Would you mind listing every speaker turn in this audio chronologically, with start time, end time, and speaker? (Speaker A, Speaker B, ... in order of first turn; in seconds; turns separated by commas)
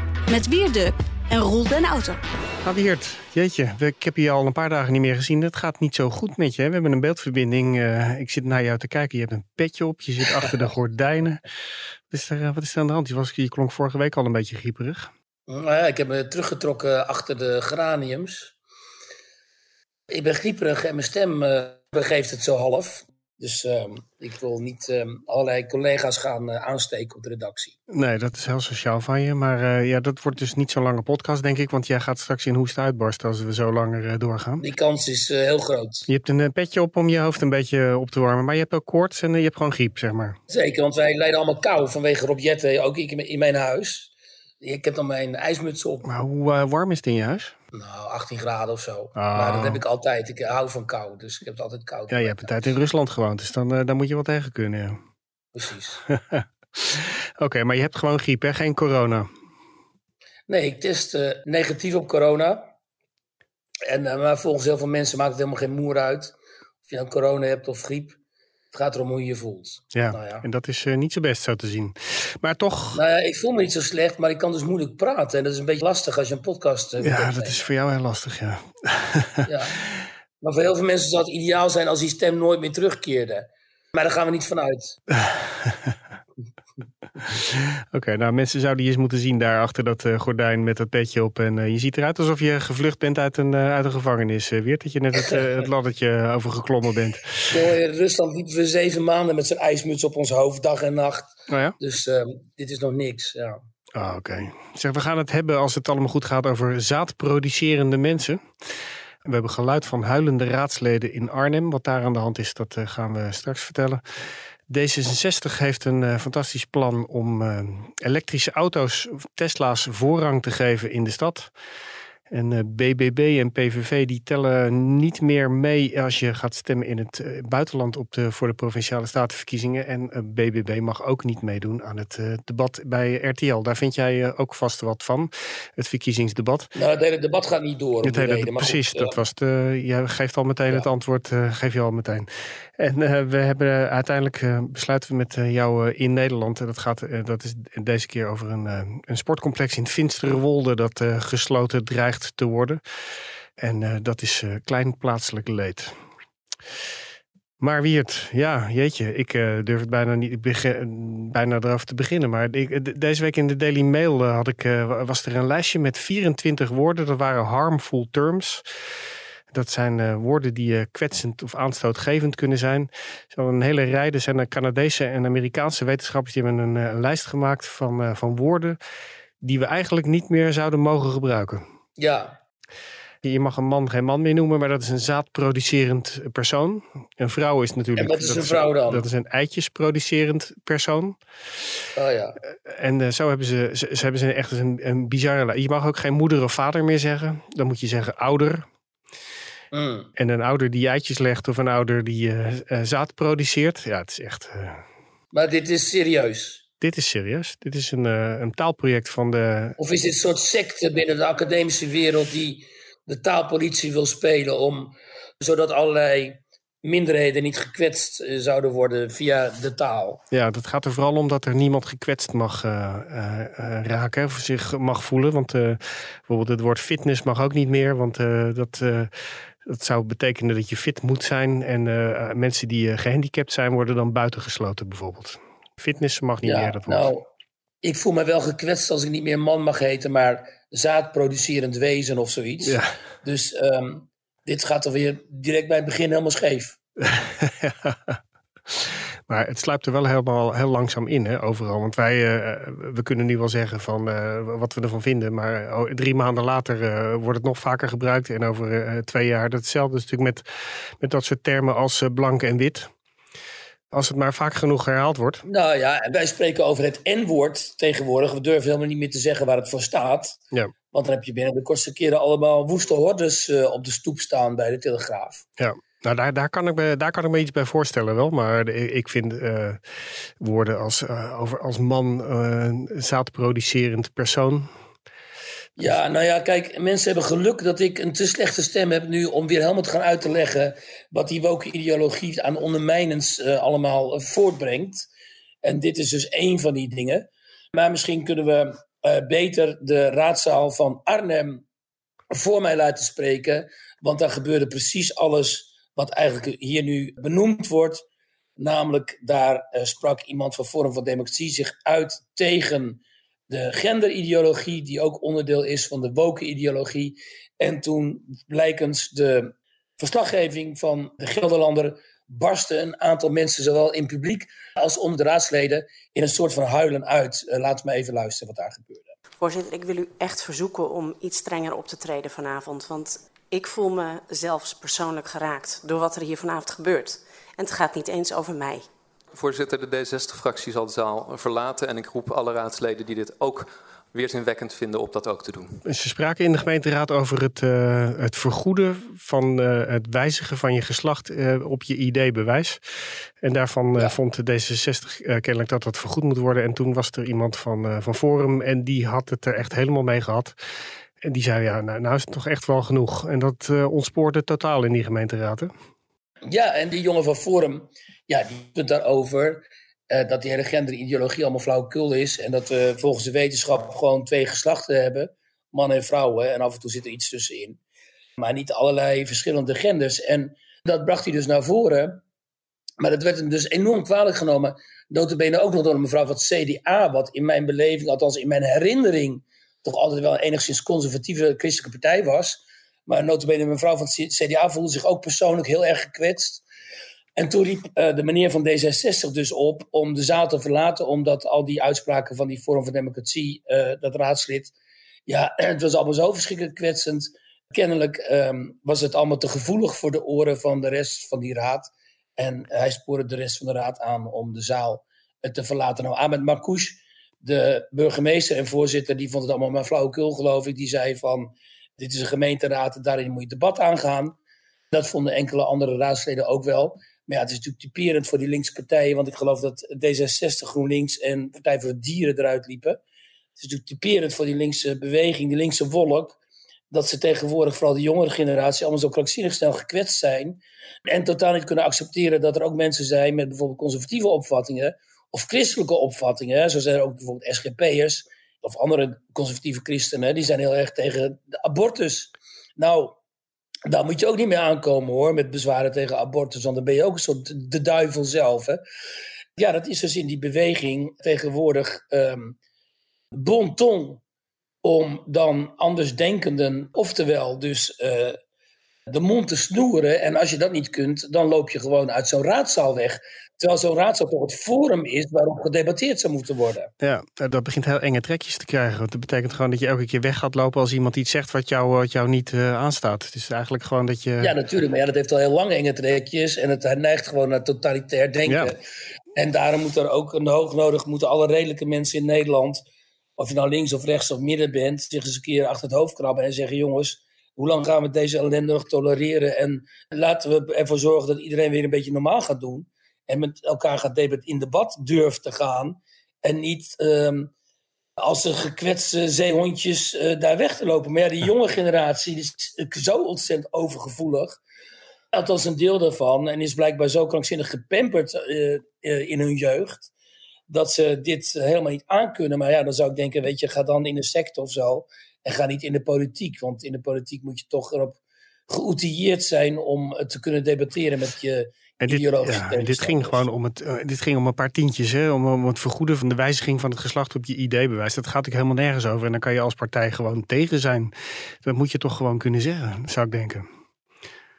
Speaker A: 0.3-2.2, Speaker B: 2.6-11.4, Speaker B: 12.1-15.1, Speaker C: 15.5-18.6, Speaker C: 20.1-27.8, Speaker B: 27.9-34.6, Speaker C: 34.6-36.1, Speaker B: 36.1-40.4, Speaker C: 40.5-46.0, Speaker B: 46.0-47.6, Speaker C: 47.7-52.5, Speaker B: 49.2-49.8, Speaker B: 52.1-55.0, Speaker C: 55.5-56.0, Speaker B: 56.1-59.3, Speaker C: 60.5-62.7, Speaker C: 63.9-66.3, Speaker C: 66.9-68.2, Speaker C: 68.7-70.4, Speaker B: 69.9-73.0, Speaker C: 72.9-77.7, Speaker B: 77.0-79.5, Speaker C: 79.5-79.8, Speaker C: 80.4-85.0, Speaker B: 85.1-86.0, Speaker B: 87.3-97.6, Speaker C: 95.2-95.5, Speaker C: 97.5-103.6, Speaker B: 101.5-101.8, Speaker B: 103.9-108.4, Speaker B: 109.2-114.0, Speaker B: 114.7-121.5, Speaker B: 122.3-136.7, Speaker C: 136.8-139.2, Speaker B: 138.0-152.8, Speaker B: 153.6-155.9, Speaker B: 157.6-168.6, Speaker B: 169.5-178.8, Speaker B: 179.4-181.6, Speaker C: 182.0-182.4, Speaker B: 183.2-191.2, Speaker C: 188.0-189.1, Speaker C: 192.0-192.4, Speaker B: 192.5-198.7, Speaker C: 199.7-200.1, Speaker B: 200.2-204.8, Speaker C: 205.3-206.6, Speaker B: 206.8-209.8, Speaker C: 209.8-220.2, Speaker B: 220.3-229.1, Speaker B: 229.6-237.1, Speaker C: 236.4-237.3, Speaker C: 237.8-246.8, Speaker B: 242.7-242.9, Speaker B: 247.0-260.4, Speaker B: 261.0-262.9, Speaker B: 263.9-265.4, Speaker C: 265.5-270.4, Speaker C: 270.9-275.4, Speaker B: 275.6-284.7, Speaker C: 285.8-295.1, Speaker C: 295.6-301.6, Speaker C: 302.3-308.1, Speaker C: 308.6-329.1, Speaker D: 329.4-338.9, Speaker E: 339.3-345.8, Speaker B: 345.9-352.8, Speaker B: 353.4-360.6, Speaker B: 361.2-365.7, Speaker C: 366.5-377.8, Speaker C: 378.4-382.2, Speaker C: 383.0-396.6, Speaker C: 397.4-404.7, Speaker C: 405.3-424.4, Speaker C: 424.9-433.0, Speaker C: 433.6-436.4, Speaker C: 436.9-453.2, Speaker C: 453.9-458.8, Speaker C: 459.6-462.6, Speaker C: 463.3-464.2, Speaker C: 464.8-468.4, Speaker C: 469.1-476.9, Speaker B: 477.0-484.6, Speaker C: 484.4-488.8, Speaker B: 488.5-488.7, Speaker C: 489.4-492.8, Speaker C: 493.4-507.5, Speaker C: 508.2-514.6, Speaker C: 515.3-520.1, Speaker C: 520.7-533.4, Speaker B: 532.0-543.6